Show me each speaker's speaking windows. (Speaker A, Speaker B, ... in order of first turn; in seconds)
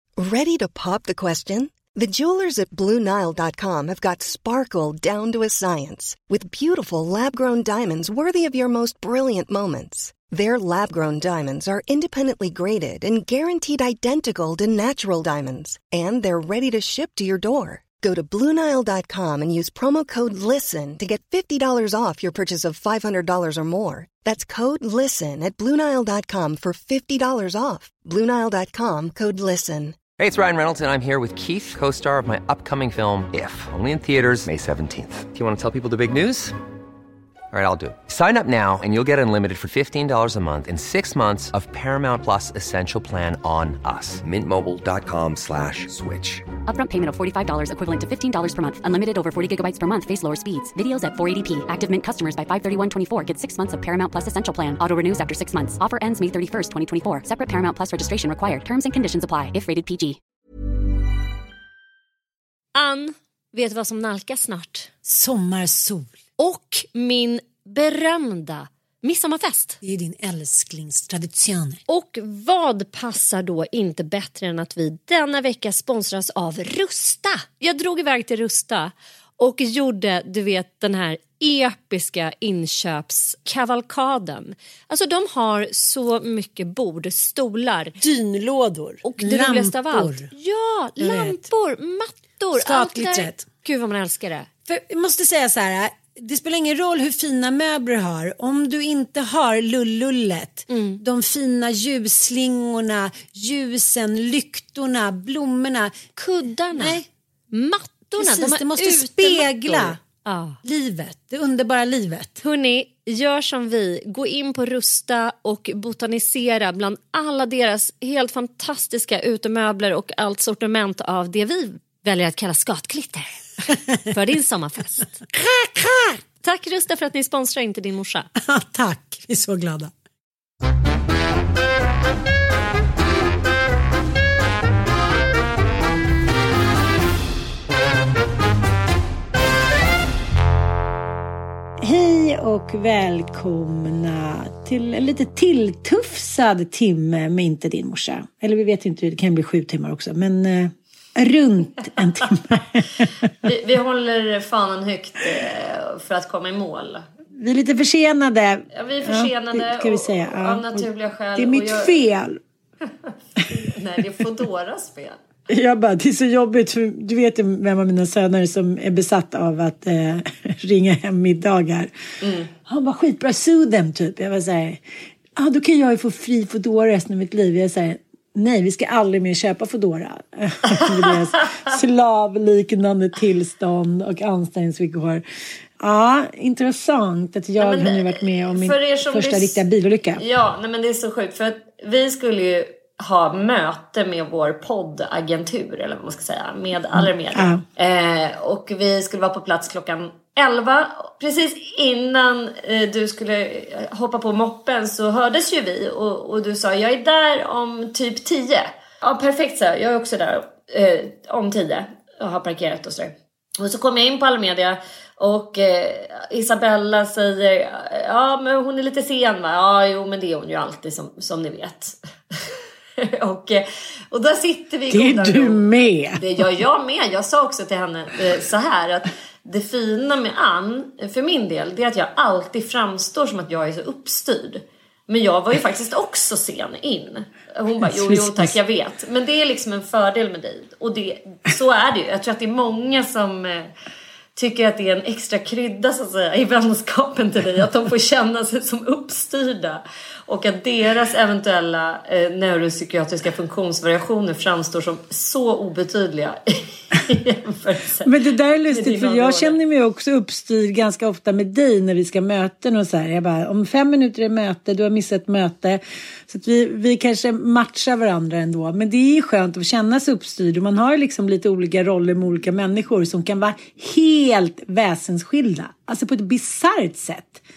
Speaker A: 0.2-30.0
Speaker B: 30.2-36.5, 37.5-46.5
Speaker C: 46.7-60.2
Speaker D: 62.7-64.9, 66.4-69.8, 71.9-88.0, 89.0-94.5, 100.7-101.0, 106.2-107.0, 107.5-110.6, 112.4-123.3, 124.1-125.3, 126.4-128.3, 153.4-157.1, 158.7-161.9, 162.9-165.2, 172.2-172.5, 187.6-189.6, 190.2-225.6, 226.2-243.7, 244.3-258.1, 258.7-259.6
Speaker E: 65.0-66.2, 69.8-71.8, 88.0-90.3, 91.0-91.4, 92.5-93.4, 94.7-107.1, 108.1-110.0, 110.6-112.4, 125.3-126.2, 128.4-129.9, 141.8-153.3, 157.3-162.4, 165.5-171.9, 172.7-174.8, 175.4-185.2, 185.8-190.2, 196.9-197.6, 224.9-226.2, 237.8-238.5, 258.0-277.4